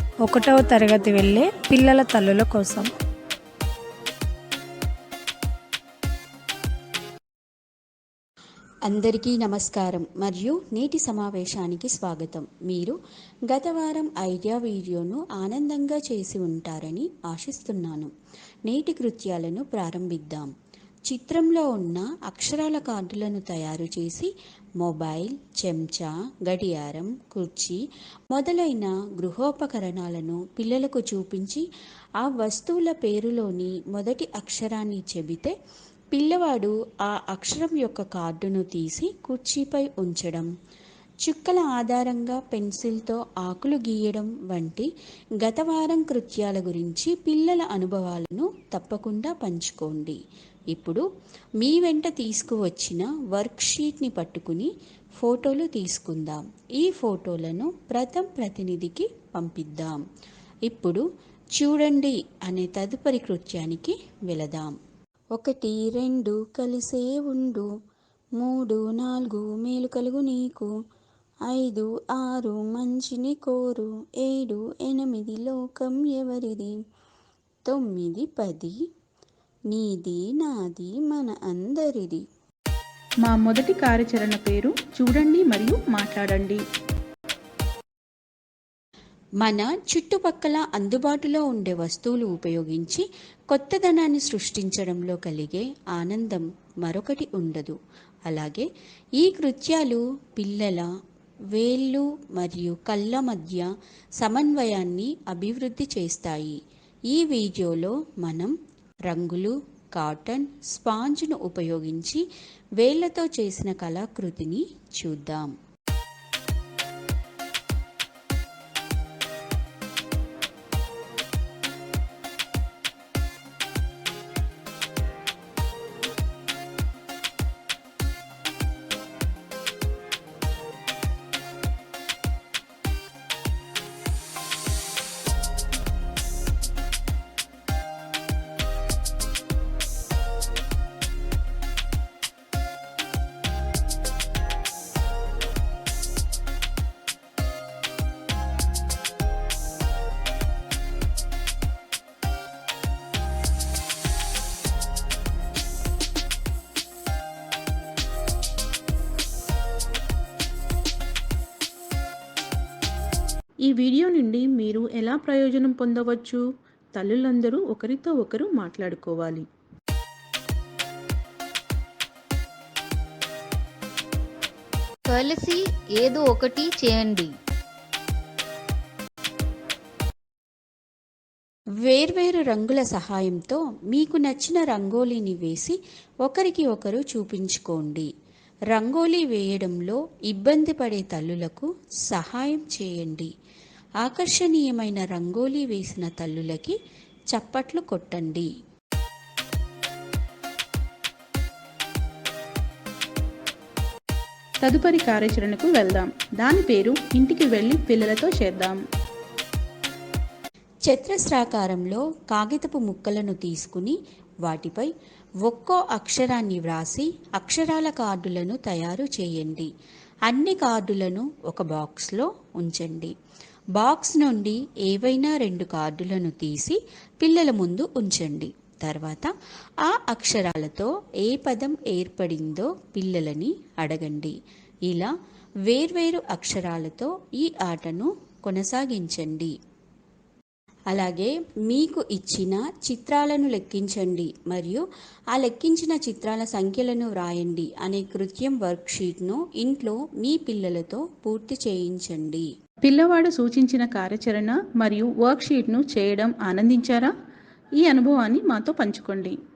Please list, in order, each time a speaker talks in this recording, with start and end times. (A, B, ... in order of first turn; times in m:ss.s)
0:00.2-0:02.9 A
0:08.9-0:13.0 B
0:13.5-0:18.1 B
0:18.7-0:20.5 B
0:21.1-0:24.3 B
0:24.8-0:27.8 B
0:28.3-0:31.6 B
0:32.2-0:35.5 B
0:36.1-0:40.5 B
0:41.2-0:44.9 B
0:45.4-0:50.2 B
0:50.7-0:51.0 B
0:51.6-1:00.0 B
1:00.7-1:01.0 B
1:01.6-1:04.7 B
1:05.4-1:07.7 B
1:08.4-1:10.7 B
1:11.5-1:16.8 B
1:17.6-1:18.8 B
1:19.7-1:22.2 B
1:23.2-1:26.6 C
1:29.4-1:37.8 B
1:38.3-1:38.7 B
1:39.2-1:40.9 B
1:41.5-1:43.7 B
1:44.2-1:46.6 B
1:47.1-1:48.5 B
1:49.1-1:52.2 B
1:52.8-1:55.5 B
2:43.6-2:46.4 C
2:46.9-2:49.4 C
2:55.1-2:57.3 D
3:01.8-3:08.1 B
3:08.7-3:13.3 B
3:14.0-3:16.8 B
3:17.3-3:18.5 B
3:24.6-3:28.8 C
3:30.9-3:34.9 B
3:35.4-3:39.7 B
3:40.3-3:43.1 B
3:43.8-3:49.3 B
3:49.8-3:54.3 B
3:54.8-3:55.1 B
3:55.7-3:59.5 B
4:00.9-4:12.5 B
4:12.8-4:17.1 C
4:17.8-4:19.4 C